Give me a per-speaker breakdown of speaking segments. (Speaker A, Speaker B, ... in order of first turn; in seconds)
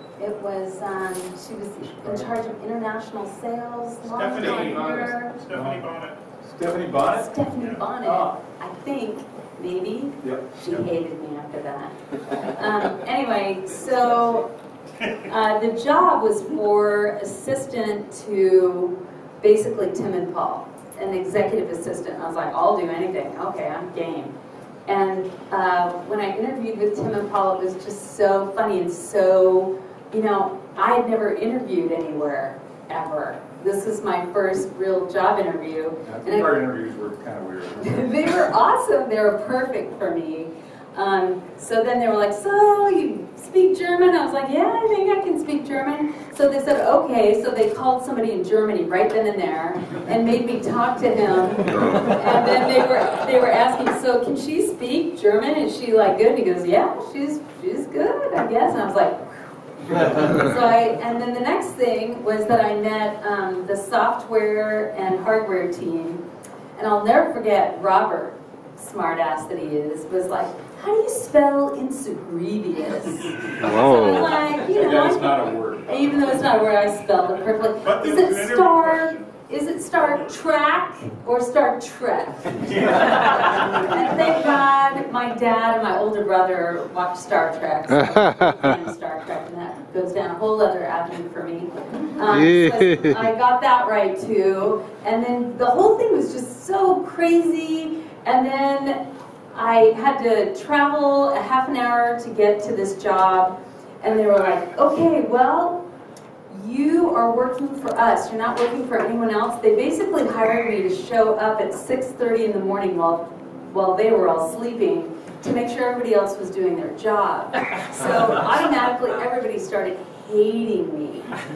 Speaker A: 0.2-5.4, 7.0-14.5, 15.2-24.3, 24.9-36.5, 37.8-59.3, 59.9-66.2, 66.8-99.0, 99.5-105.8, 106.5-121.3
Speaker B: 1.9-2.4, 5.5-5.9, 6.4-7.5, 8.0-8.3, 10.2-10.5, 36.0-38.4, 59.9-60.4, 74.7-76.5
Speaker C: 4.2-6.2, 77.8-79.1, 82.8-83.8